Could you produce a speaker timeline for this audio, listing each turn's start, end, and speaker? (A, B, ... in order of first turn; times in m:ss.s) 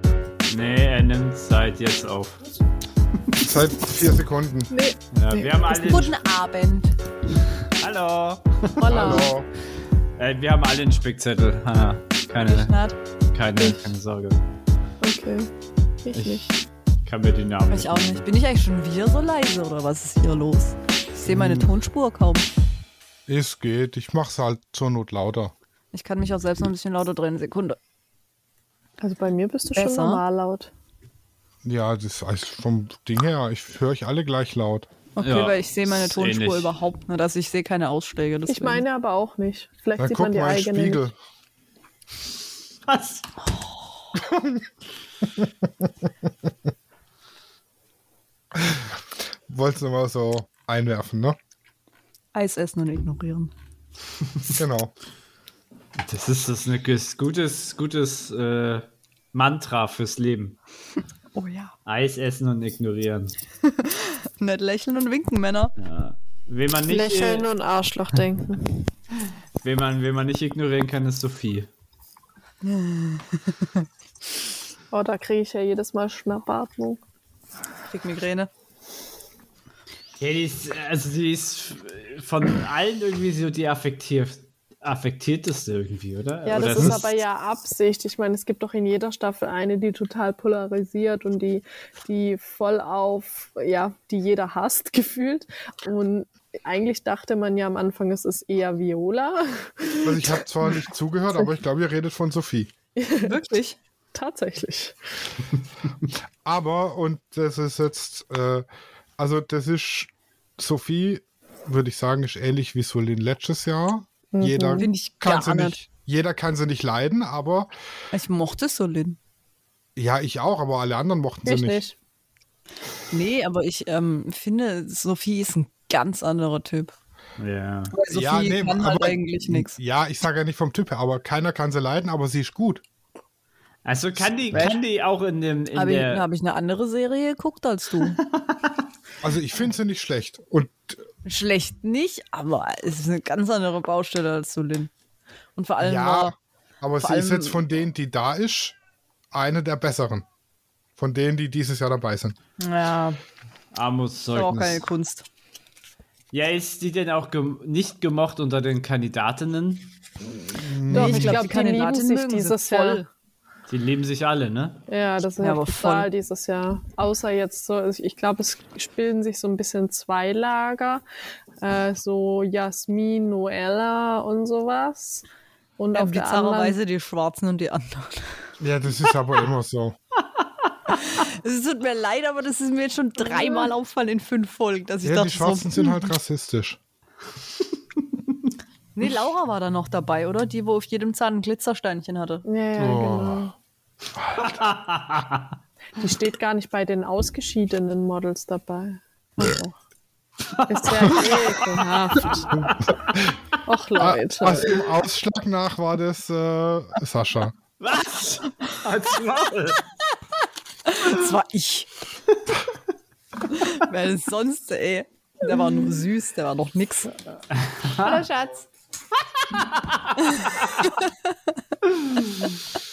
0:00.5-0:02.5 A
0:03.4-0:04.7 B
0:04.7-0:05.7 C
0:05.1-0:06.1 A
0:05.6-0:06.9 D
0:07.7-0:09.3 A
0:08.8-0:09.3 C
0:08.8-0:09.4 B
0:10.2-0:12.7 A
0:12.4-0:13.0 D
0:13.3-0:14.4 A
0:15.0-0:15.5 C
0:16.0-0:16.4 C
0:16.1-0:18.2 A
0:17.7-0:22.5 D
0:21.3-0:21.7 A
0:23.3-0:25.5 B
0:25.9-0:27.8 D
0:29.0-0:30.7 C
0:29.8-0:30.2 D
0:31.6-0:34.9 B
0:35.2-0:38.8 D
0:35.2-0:36.7 A
0:38.5-0:41.0 C
0:40.0-0:41.2 B
0:42.9-0:43.3 A
0:44.2-0:44.6 B
0:48.5-0:51.4 B
0:52.3-0:53.5 D
0:54.5-0:54.9 B
0:56.0-1:00.6 A
1:01.4-1:01.7 D
1:01.8-1:03.3 A
1:03.6-1:05.7 D
1:05.8-1:07.5 A
1:06.9-1:08.9 C
1:09.6-1:11.7 A
1:12.6-1:13.8 D
1:14.9-1:17.0 C
1:17.9-1:18.5 D
1:20.2-1:27.2 A
1:26.4-1:40.7 C
1:40.0-1:42.7 B
1:43.0-1:43.4 C
1:43.2-1:43.8 D
1:44.1-1:45.0 C
1:46.4-1:48.6 B
1:49.2-1:57.7 B
1:54.3-1:54.9 C
1:54.8-1:55.8 D
1:58.1-1:59.2 D
2:00.0-2:01.8 B
2:01.4-2:01.9 C
2:03.1-2:06.9 D
2:07.4-2:07.9 A
2:07.9-2:09.8 D
2:08.1-2:12.8 B
2:13.8-2:16.2 A
2:14.5-2:14.8 D
2:15.7-2:18.2 D
2:18.2-2:18.5 A
2:19.2-2:21.0 B
2:21.2-2:24.9 D
2:25.6-2:26.3 D
2:25.8-2:28.8 B
2:27.0-2:27.6 D
2:29.3-2:30.2 B
2:31.0-2:32.3 B
2:32.6-2:33.2 D
2:33.7-2:34.9 A
2:34.3-2:35.2 D
2:36.3-2:39.9 A
2:40.5-2:41.4 B
2:40.9-2:43.1 D
2:40.9-2:43.0 C
2:43.7-2:44.8 A
2:44.9-2:51.0 C
2:45.4-2:46.1 D
2:51.6-2:55.2 C
2:55.8-2:56.8 C
2:55.9-2:58.4 D
2:58.6-3:00.0 B
3:01.0-3:06.1 D
3:03.2-3:03.7 C
3:05.0-3:06.8 B
3:08.9-3:12.4 D
3:12.4-3:13.5 C
3:12.8-3:13.5 B
3:14.1-3:14.6 B
3:14.4-3:15.5 A
3:16.0-3:19.7 C
3:20.5-3:22.9 A
3:20.7-3:22.7 C
3:22.5-3:23.4 B
3:23.6-3:24.8 C
3:24.0-3:27.5 B
3:27.8-3:29.8 A
3:30.8-3:31.9 D
3:33.5-3:37.1 D
3:37.5-3:38.2 A
3:38.0-3:38.7 C
3:39.5-3:40.6 A
3:40.4-3:40.9 D
3:41.8-3:42.6 A